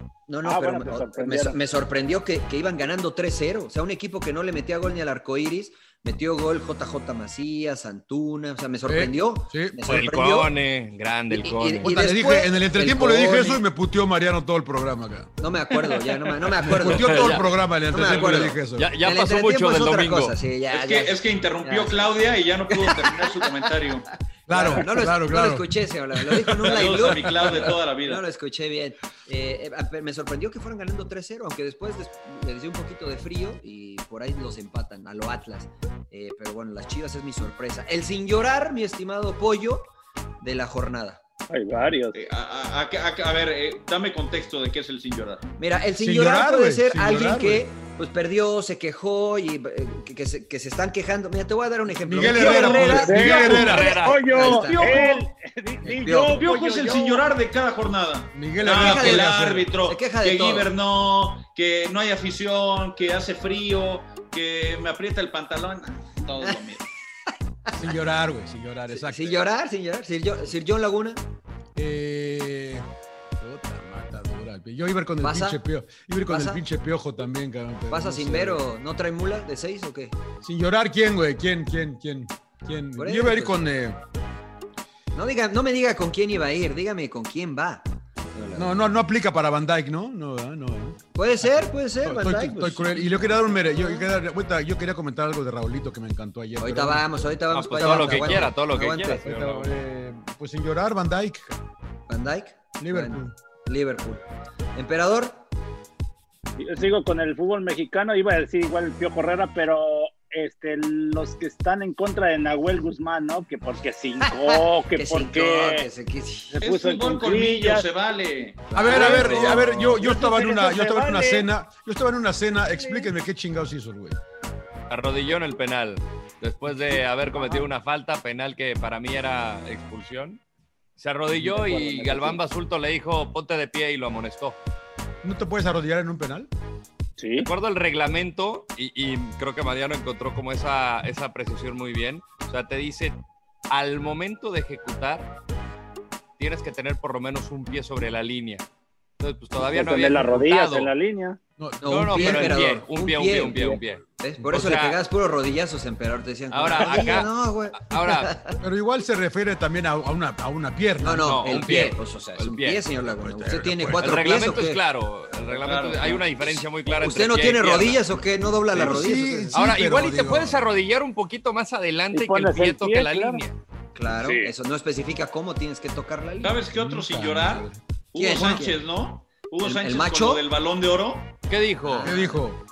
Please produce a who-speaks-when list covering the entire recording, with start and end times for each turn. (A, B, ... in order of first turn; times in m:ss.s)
0:00.3-0:10.5 A
0:00.4-0:01.6 B
0:08.8-0:09.8 C
0:09.8-0:11.9 D
0:11.3-0:13.6 A
0:11.8-0:15.3 C
0:15.4-0:22.1 A
0:16.6-0:18.9 C
0:16.7-0:17.5 D
0:18.7-0:20.4 D
0:20.7-0:24.1 E
0:22.7-0:23.7 A
0:24.5-0:27.0 C
0:24.5-0:41.2 A
0:26.6-0:28.2 E
0:41.5-0:42.2 B
0:42.1-0:45.4 E
0:45.6-0:55.2 A
0:46.0-0:47.6 C
0:52.0-0:53.9 C
0:52.2-0:53.1 E
0:53.0-0:57.2 B
0:53.4-0:54.5 D
0:54.3-0:55.2 E
0:55.9-0:56.4 A
0:56.4-1:06.8 E
0:58.3-0:59.7 C
0:58.6-1:00.7 A
1:07.7-1:09.4 C
1:08.9-1:11.2 A
1:11.7-1:12.9 C
1:13.4-1:18.6 C
1:15.2-1:15.6 A
1:16.3-1:16.6 A
1:17.9-1:20.2 A
1:20.4-1:24.0 C
1:23.0-1:23.6 A
1:25.1-1:28.8 A
1:28.5-1:37.0 C
1:31.2-1:34.1 A
1:36.6-1:39.2 A
1:37.5-1:39.7 D
1:37.8-1:38.5 C
1:39.2-1:41.6 C
1:42.1-1:45.4 A
1:42.8-1:43.3 C
1:46.6-1:55.9 B
1:54.5-1:56.6 A
1:56.5-1:57.8 B
1:56.6-1:59.2 E
1:58.7-1:59.7 A
1:58.7-2:04.2 C
1:58.9-2:01.5 B
2:02.7-2:03.1 B
2:04.9-2:10.4 D
2:07.4-2:07.6 B
2:11.0-2:14.6 D
2:11.4-2:12.4 B
2:15.2-2:16.5 C
2:17.2-2:17.5 B
2:17.4-2:25.3 D
2:26.4-2:28.6 D
2:29.2-2:30.9 D
2:29.7-2:31.4 B
2:31.6-2:32.7 C
2:31.8-2:38.6 A
2:31.8-2:35.0 D
2:36.5-2:38.3 D
2:38.6-2:41.7 C
2:41.0-2:44.8 A
2:41.1-2:42.8 D
2:43.2-2:44.3 C
2:43.9-2:48.0 D
2:45.5-2:46.2 E
2:46.8-2:49.6 A
2:48.7-2:50.6 C
2:49.5-2:53.6 D
2:52.1-2:53.4 B
2:53.9-2:56.6 A
2:54.2-2:54.5 B
2:56.4-3:01.3 E
2:56.7-2:57.8 C
2:58.1-2:58.8 A
2:59.6-3:00.4 A
3:01.5-3:02.1 D
3:01.8-3:02.4 A
3:02.0-3:02.6 C